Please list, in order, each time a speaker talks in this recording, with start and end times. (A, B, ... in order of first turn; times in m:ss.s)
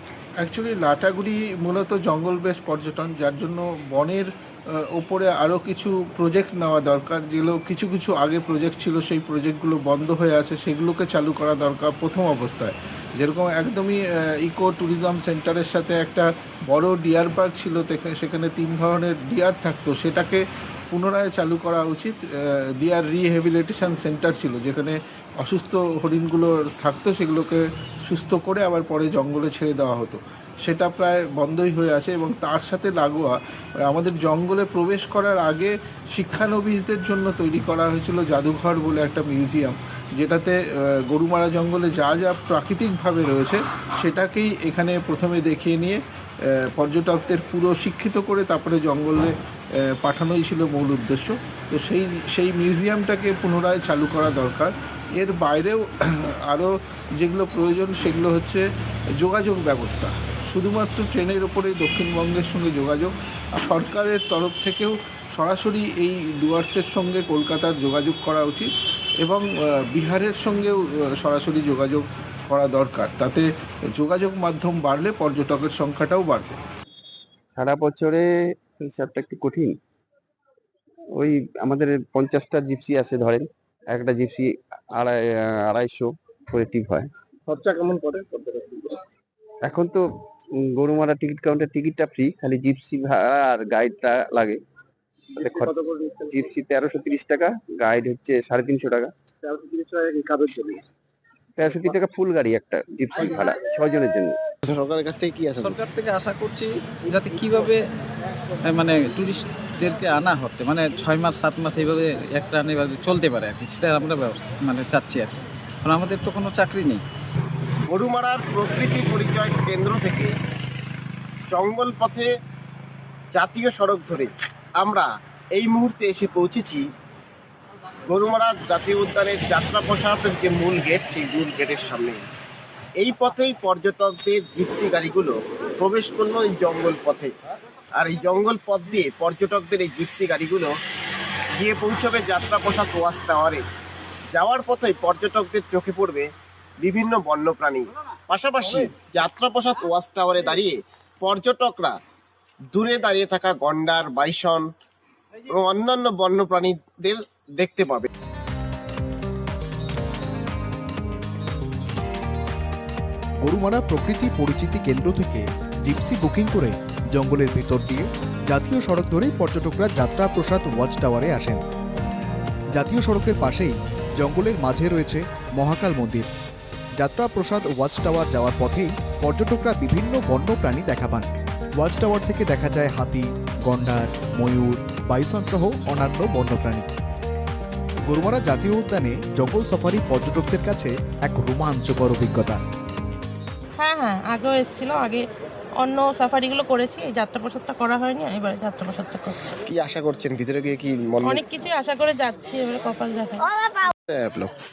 0:00.4-0:58.6 A
0:59.2-1:08.7 A
1:09.2-1:16.6 A
1:17.5-1:18.2 B
1:18.8-1:19.7 B
1:21.1-1:28.9 B
1:29.6-1:30.0 B
1:30.6-1:34.6 B
1:35.4-1:39.1 B
1:40.4-1:40.8 B
1:41.6-1:44.3 B
1:44.6-1:45.8 C
1:45.6-1:47.8 D
1:48.7-1:57.0 D
1:57.9-2:00.3 C
2:01.5-2:02.3 C
2:03.3-2:06.8 C
2:08.1-2:12.2 C
2:13.0-2:17.3 C
2:18.0-2:20.7 C
2:21.6-2:23.6 C
2:24.3-2:26.3 C
2:26.8-2:32.0 C
2:32.7-2:34.7 C
2:35.5-2:38.1 C
2:43.4-2:51.6 E
2:52.7-2:56.3 E
2:57.0-3:01.3 E
3:01.8-3:06.9 E
3:08.1-3:12.6 E
3:13.8-3:15.2 F
3:15.8-3:19.4 F
3:19.7-3:21.4 C
3:21.2-3:23.4 F
3:24.1-3:24.5 C